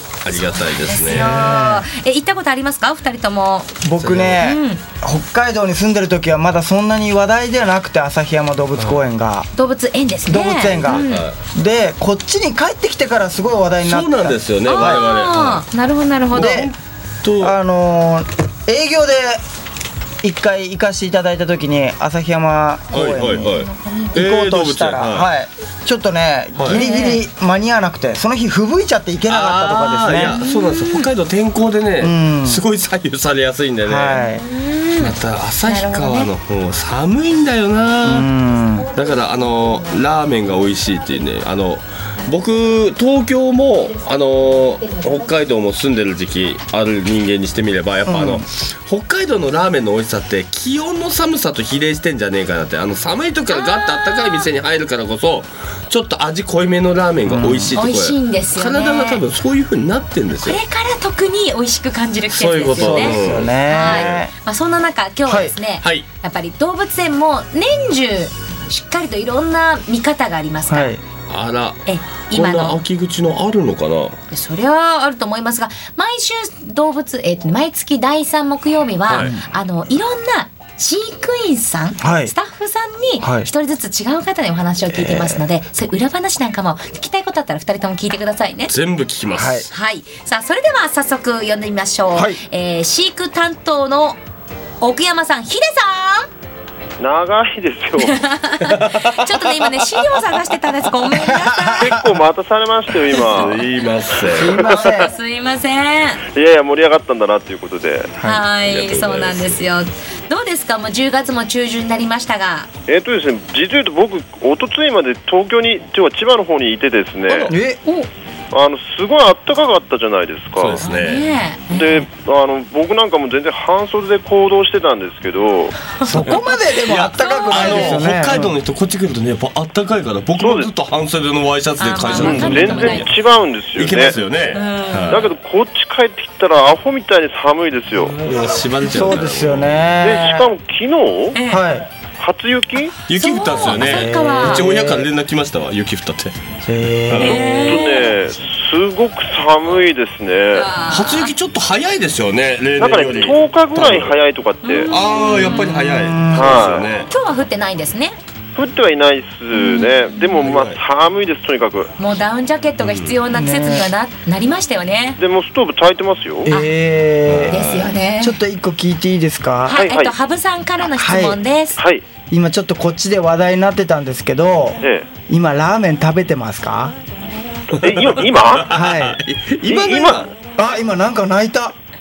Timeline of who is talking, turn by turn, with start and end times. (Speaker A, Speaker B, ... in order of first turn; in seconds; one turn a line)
Speaker A: 0.2-1.3
Speaker B: 0.8-3.7
Speaker C: 1.0-1.8
Speaker C: 3.8-9.5
Speaker A: 4.0-4.4
Speaker B: 4.4-4.8
Speaker B: 9.5-11.2
Speaker C: 10.3-15.0
Speaker A: 10.9-11.4
Speaker A: 13.8-15.7
Speaker B: 14.6-16.7
Speaker C: 16.3-16.7
Speaker A: 16.3-17.6
Speaker C: 17.4-19.4
Speaker C: 20.2-23.6
Speaker A: 22.9-25.3
Speaker B: 23.2-24.2
Speaker C: 24.1-30.4
Speaker A: 26.5-26.8
Speaker B: 26.6-27.2
Speaker A: 29.3-34.2
Speaker B: 30.3-31.1
Speaker C: 32.0-32.6
Speaker C: 33.9-34.4
Speaker B: 34.3-36.3
Speaker A: 35.0-38.3
Speaker C: 38.0-38.9
Speaker B: 38.7-40.0
Speaker A: 38.9-60.6
Speaker B: 44.0-45.3
Speaker C: 48.0-48.4
Speaker B: 53.5-54.5
Speaker C: 57.2-57.8
Speaker B: 57.7-59.2
Speaker B: 60.4-70.9
Speaker A: 62.3-64.2
Speaker C: 62.7-64.3
Speaker C: 65.2-65.5
Speaker A: 65.8-66.1
Speaker C: 70.7-71.0
Speaker A: 71.3-74.2
Speaker B: 71.8-72.8
Speaker B: 74.3-88.7
Speaker A: 79.1-79.3
Speaker C: 79.2-79.4
Speaker C: 82.0-82.3
Speaker C: 83.2-83.5
Speaker C: 84.9-85.5
Speaker A: 88.7-89.7
Speaker C: 89.3-89.7
Speaker B: 89.7-94.2
Speaker C: 92.1-92.4
Speaker B: 94.8-96.3
Speaker D: 97.0-98.2
Speaker B: 98.0-102.0
Speaker A: 98.6-100.2
Speaker C: 101.2-102.0
Speaker D: 101.8-103.7
Speaker A: 103.1-104.5
Speaker C: 104.1-105.1
Speaker B: 104.6-106.2
Speaker D: 106.3-108.2
Speaker C: 108.2-108.4
Speaker B: 108.2-112.7
Speaker A: 108.6-109.6
Speaker D: 112.9-117.5
Speaker A: 117.3-117.5
Speaker C: 117.5-117.8
Speaker B: 117.8-118.1
Speaker D: 118.5-120.8
Speaker A: 120.6-121.3
Speaker B: 120.8-122.1
Speaker D: 121.7-125.7
Speaker B: 126.0-126.5
Speaker C: 126.0-128.5
Speaker A: 126.8-133.1
Speaker B: 127.1-128.0
Speaker D: 130.4-130.7
Speaker B: 131.8-133.1
Speaker D: 132.1-134.2
Speaker A: 133.7-135.3
Speaker B: 134.5-135.3
Speaker D: 135.1-138.3
Speaker A: 138.0-139.9
Speaker C: 138.8-140.5
Speaker D: 140.0-141.4
Speaker B: 141.3-141.6
Speaker C: 141.5-141.9
Speaker D: 142.2-143.0
Speaker A: 143.0-146.5
Speaker B: 143.1-144.7
Speaker C: 143.7-145.1
Speaker C: 146.7-147.4
Speaker A: 147.1-147.9
Speaker B: 147.2-148.2
Speaker D: 147.2-150.8
Speaker B: 150.5-151.3
Speaker A: 150.8-154.2
Speaker D: 152.8-154.9
Speaker B: 154.6-155.9
Speaker A: 154.9-157.1
Speaker C: 155.3-156.6
Speaker D: 156.3-156.9
Speaker B: 157.1-158.2
Speaker D: 158.5-161.9
Speaker B: 159.5-160.3
Speaker A: 160.3-160.8
Speaker B: 162.0-165.2
Speaker A: 162.8-163.2
Speaker C: 163.3-163.9
Speaker D: 165.2-166.5
Speaker C: 166.5-169.8
Speaker A: 167.3-167.9
Speaker B: 167.5-168.4
Speaker B: 169.6-171.8
Speaker D: 169.7-170.1
Speaker C: 170.9-171.4
Speaker D: 171.8-172.1
Speaker C: 172.3-176.9
Speaker D: 174.8-175.1
Speaker A: 177.7-180.3
Speaker D: 177.8-178.6
Speaker C: 178.7-179.2
Speaker D: 179.6-180.3
Speaker C: 180.6-181.8